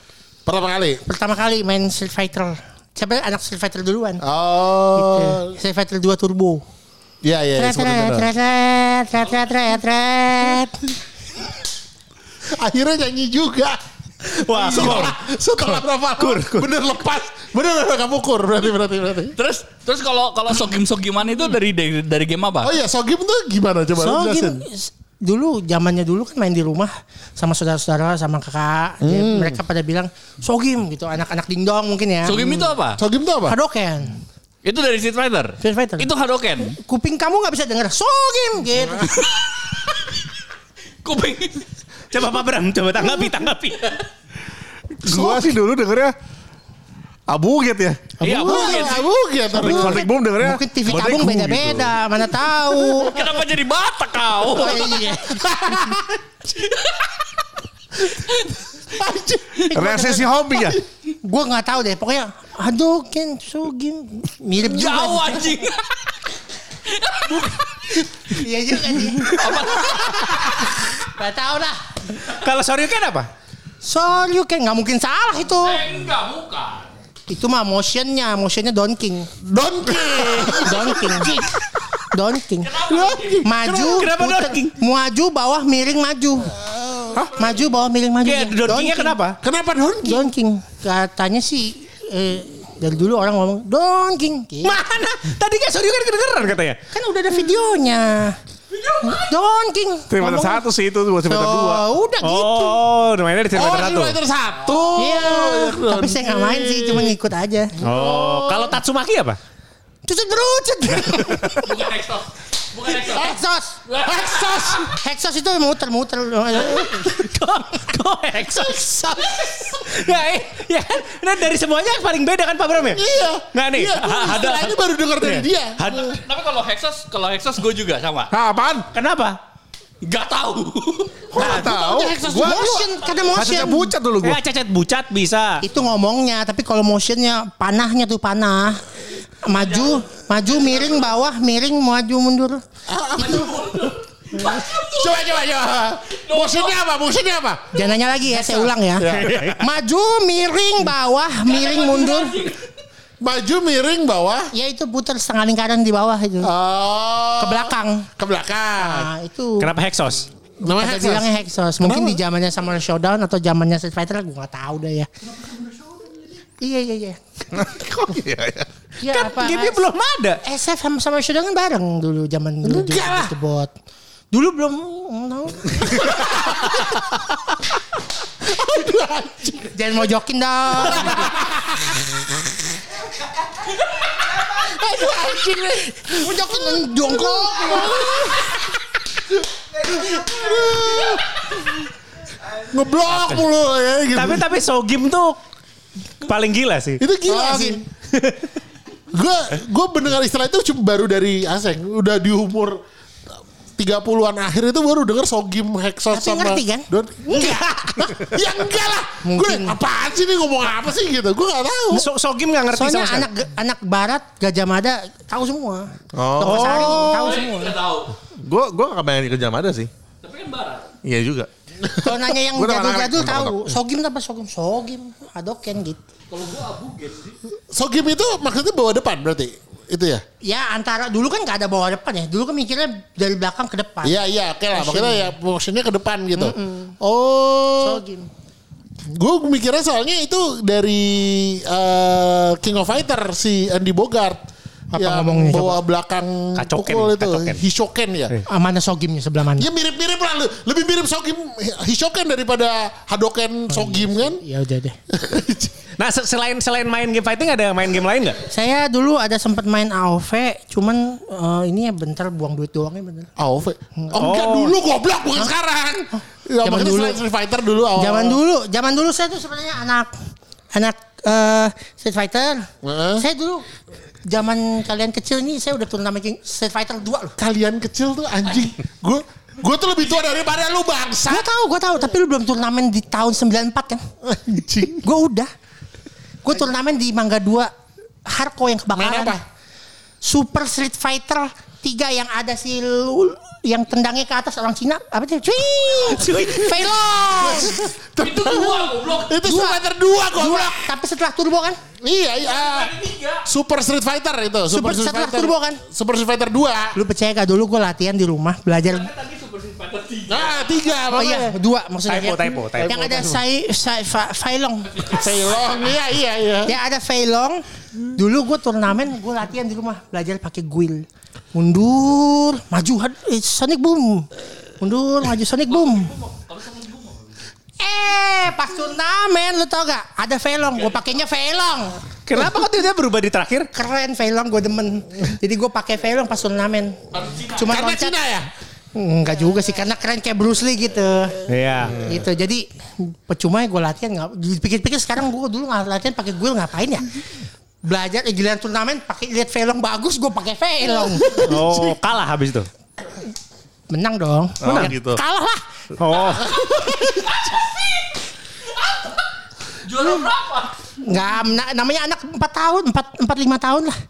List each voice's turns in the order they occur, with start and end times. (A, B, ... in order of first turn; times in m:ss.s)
0:00.4-0:01.0 A
0:01.1-0:04.2 B
0:04.2-0:05.6 A
0:05.0-0:06.6 B
0:07.2-0:08.3 A
0:07.6-0:10.7 B
0:12.5-0:19.4 A
0:14.3-0:16.7 C
0:19.4-0:22.7 D
0:22.6-0:24.6 A
0:24.0-0:32.5 B
0:29.0-0:29.6 A
0:32.2-0:33.0 D
0:32.3-0:33.6 A
0:33.5-0:34.2 B
0:34.6-0:36.8 D
0:35.6-0:36.1 B
0:36.7-0:39.3 B
0:39.1-0:40.2 D
0:41.0-0:41.7 D
0:42.1-0:44.0 C
0:45.0-0:46.1 E
0:47.3-0:48.2 E
0:48.2-0:49.1 D
0:48.2-0:48.8 B
0:48.2-0:50.0 A
0:49.6-0:53.2 B
0:49.6-0:51.9 E
0:52.9-0:55.1 D
0:54.4-0:56.0 B
0:55.3-0:56.0 A
0:56.5-0:57.1 D
0:58.9-0:59.7 A
0:59.7-1:05.6 B
0:59.7-1:00.8 E
1:04.6-1:05.9 D
1:06.8-1:07.9 D
1:08.3-1:12.0 B
1:09.2-1:10.7 D
1:12.3-1:13.3 C
1:13.8-1:15.8 B
1:15.6-1:16.9 D
1:17.3-1:19.3 B
1:19.4-1:21.4 A
1:20.4-1:21.5 B
1:22.1-1:22.8 B
1:22.6-1:23.5 D
1:22.8-1:24.1 A
1:23.4-1:26.5 B
1:23.7-1:24.7 C
1:26.6-1:27.3 A
1:27.3-1:29.2 B
1:28.2-1:29.4 C
1:29.4-1:30.3 A
1:30.0-1:34.8 B
1:34.6-1:36.8 C
1:36.9-1:38.4 B
1:38.7-1:39.3 D
1:39.0-1:40.6 B
1:40.1-1:41.8 E
1:41.2-1:42.8 B
1:42.2-1:44.2 C
1:43.5-1:47.2 A
1:45.0-1:47.8 B
1:47.8-1:48.8 A
1:47.8-1:49.4 C
1:50.0-1:51.7 B
1:51.0-1:51.6 C
1:51.6-1:53.3 D
1:52.9-1:53.8 B
1:53.9-1:54.9 D
1:53.9-1:54.9 A
1:54.9-1:57.2 B
1:56.7-1:59.2 C
1:58.6-1:59.9 A
1:59.8-2:06.0 C
2:02.9-2:06.2 A
2:05.9-2:08.3 D
2:08.3-2:08.9 A
2:08.9-2:09.4 C
2:10.0-2:11.2 D
2:11.3-2:12.9 A
2:11.3-2:12.8 E
2:11.4-2:11.7 C
2:12.3-2:13.9 B
2:13.0-2:13.3 D
2:13.3-2:14.4 E
2:13.5-2:15.6 C
2:15.6-2:18.9 B
2:19.4-2:22.6 B
2:19.5-2:21.0 D
2:22.9-2:29.6 A
2:23.2-2:25.4 D
2:26.1-2:26.8 D
2:27.7-2:32.4 B
2:29.1-2:29.6 C
2:31.4-2:32.7 D
2:33.2-2:34.5 A
2:34.5-2:36.5 B
2:36.4-2:39.1 A
2:37.4-2:38.1 B
2:38.8-2:39.7 B
2:39.6-2:40.3 C
2:40.6-2:42.2 A
2:40.6-2:45.1 B
2:45.4-2:46.2 D
2:46.6-2:47.2 B
2:47.5-2:48.7 E
2:49.0-2:49.8 B
2:49.1-2:50.4 C
2:50.4-2:53.7 B
2:52.6-2:53.3 A
2:54.3-2:56.6 B
2:58.4-2:59.7 A
2:59.7-3:01.4 B
3:00.8-3:02.0 A
3:04.4-3:08.6 A
3:06.0-3:08.3 B
3:09.3-3:11.6 A
3:12.6-3:14.4 A
3:14.1-3:15.4 C
3:16.2-3:17.0 C
3:17.0-3:17.8 A
3:17.2-3:17.8 B
3:18.1-3:18.5 C
3:19.1-3:22.8 A
3:23.8-3:32.1 A
3:26.1-3:27.6 B
3:29.2-3:29.7 B
3:31.9-3:33.3 C
3:32.7-3:37.8 B
3:36.2-3:36.8 E
3:36.5-3:37.1 C
3:36.5-3:37.4 A
3:37.1-3:38.1 D
3:38.4-3:39.9 E
3:40.2-3:40.9 D
3:41.0-3:41.5 E
3:42.0-3:46.0 B
3:42.3-3:43.8 E
3:46.3-3:47.4 D
3:47.7-3:50.2 A
3:50.4-3:54.2 B
3:54.0-3:58.0 A
3:54.7-3:55.3 B
3:56.4-3:56.9 B
3:57.8-3:58.3 B
3:59.1-4:04.4 A
4:04.9-4:05.8 B
4:04.9-4:08.4 A
4:06.6-4:07.6 C
4:08.4-4:09.7 B
4:09.6-4:14.4 A
4:13.7-4:15.0 B
4:15.1-4:15.7 A
4:16.0-4:18.4 C
4:18.4-4:23.3 B
4:23.4-4:28.4 A
4:24.2-4:24.8 C
4:26.6-4:27.2 B
4:28.0-4:30.1 B
4:30.7-4:33.6 B
4:32.8-4:33.2 A
4:34.2-4:37.3 B
4:37.4-4:41.5 A
4:41.3-4:44.0 B
4:44.2-4:45.1 A
4:44.9-4:45.5 B
4:46.4-4:47.7 B
4:48.2-4:49.4 B
4:48.9-4:49.4 A
4:50.2-4:57.8 B
4:56.3-5:00.9 A
4:58.2-4:59.3 D
4:59.4-5:01.8 B
5:02.0-5:02.9 A
5:02.4-5:03.4 D
5:03.4-5:07.0 A
5:04.7-5:05.8 B
5:06.9-5:09.1 B
5:08.8-5:11.1 D
5:10.3-5:11.5 A
5:11.1-5:15.1 B
5:12.1-5:12.9 C
5:12.7-5:13.4 A
5:15.0-5:16.7 A
5:16.6-5:24.3 B
5:24.8-5:26.1 B
5:25.7-5:27.3 D
5:27.8-5:32.1 B
5:32.2-5:33.7 C
5:33.7-5:37.0 B
5:37.1-5:37.8 D
5:37.5-5:38.1 B
5:37.7-5:38.5 A
5:38.9-5:41.5 B
5:41.5-5:42.1 C
5:42.0-5:47.2 B
5:47.8-5:51.5 B
5:51.3-5:51.9 A
5:51.4-5:52.7 C
5:53.9-5:56.2 B
5:54.6-5:55.2 E
5:56.0-5:56.6 C
5:56.4-5:57.5 A
5:56.9-5:59.2 D
5:59.8-6:00.8 D
6:01.0-6:04.0 B